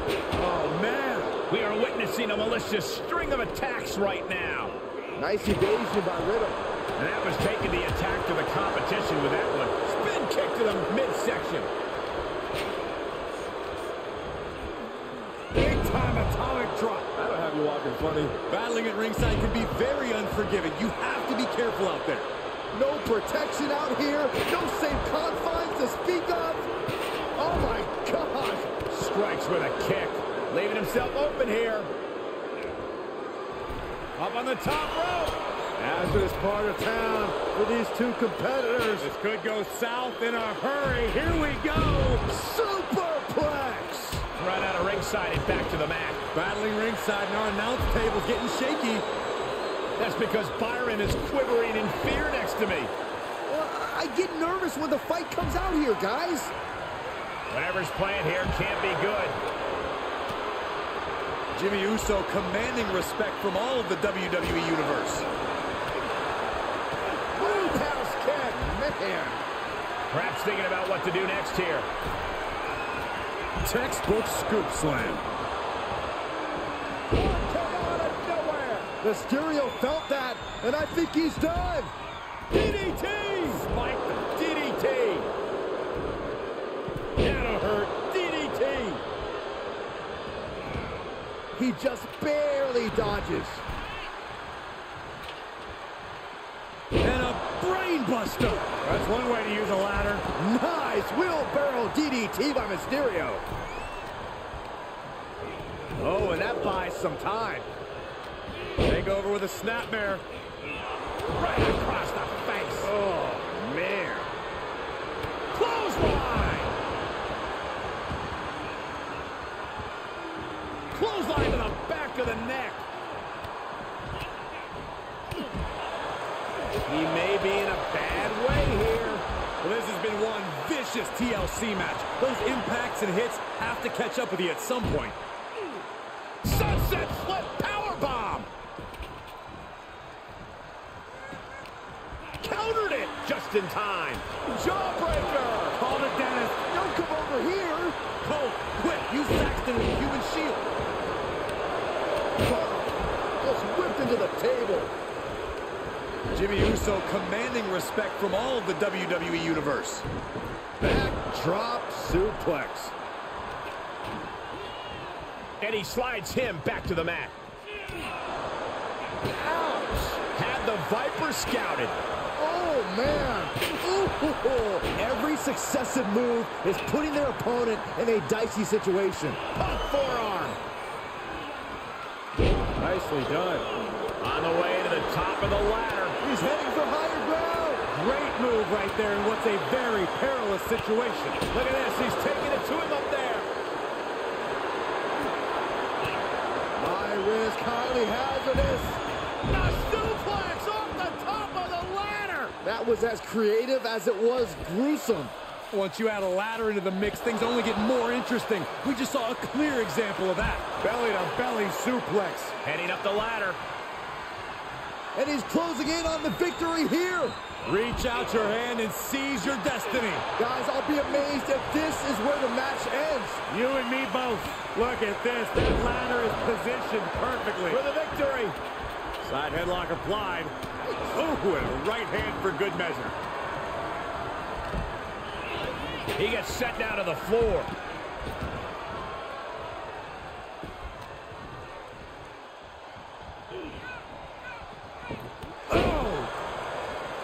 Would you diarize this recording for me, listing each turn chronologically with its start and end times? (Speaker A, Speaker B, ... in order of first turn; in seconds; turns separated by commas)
Speaker A: 0.3-1.3, Speaker B: 1.5-4.7, Speaker C: 5.2-6.6, Speaker B: 7.0-11.7, Speaker A: 15.5-17.1, Speaker C: 17.2-18.3, Speaker A: 18.5-22.3, Speaker C: 22.7-26.7, Speaker C: 27.3-28.7, Speaker B: 28.8-31.9, Speaker B: 34.1-35.3, Speaker C: 35.8-39.1, Speaker A: 39.0-42.2, Speaker C: 42.2-44.2, Speaker B: 44.3-46.2, Speaker A: 46.3-49.0, Speaker B: 50.0-52.9, Speaker C: 53.5-56.5, Speaker B: 57.5-59.4, Speaker A: 61.5-65.3, Speaker C: 67.4-69.4, Speaker B: 67.4-67.8, Speaker B: 70.1-71.9, Speaker A: 73.6-75.2, Speaker C: 77.1-81.9, Speaker A: 82.6-83.7, Speaker B: 83.4-85.3, Speaker B: 87.2-89.0, Speaker C: 91.5-93.6, Speaker A: 97.0-100.2, Speaker C: 100.3-103.4, Speaker C: 106.0-107.7, Speaker A: 108.8-110.2, Speaker B: 111.3-112.9, Speaker C: 112.8-114.3, Speaker B: 115.5-116.8, Speaker B: 120.9-122.8, Speaker B: 126.8-129.2, Speaker A: 129.6-135.2, Speaker B: 136.4-138.5, Speaker B: 142.4-144.3, Speaker C: 144.5-145.7, Speaker B: 145.1-145.8, Speaker A: 145.7-146.6, Speaker C: 146.6-148.0, Speaker A: 148.2-150.7, Speaker C: 152.4-154.9, Speaker A: 156.3-160.1, Speaker C: 160.8-162.9, Speaker B: 165.6-167.3, Speaker C: 169.4-170.1, Speaker B: 170.1-172.0, Speaker C: 172.3-179.4, Speaker B: 179.5-180.6, Speaker B: 184.2-186.2, Speaker C: 186.2-187.8, Speaker A: 187.9-191.4, Speaker B: 191.5-193.5, Speaker C: 196.8-199.0, Speaker B: 199.4-202.5, Speaker C: 202.6-205.3, Speaker A: 205.7-212.5, Speaker B: 212.6-213.6, Speaker C: 215.1-217.4, Speaker A: 217.6-220.2, Speaker C: 220.3-223.4, Speaker A: 223.5-227.8, Speaker B: 227.7-228.6, Speaker A: 229.2-230.6, Speaker C: 230.8-231.2, Speaker A: 231.1-233.2, Speaker B: 236.1-237.7, Speaker A: 245.7-246.3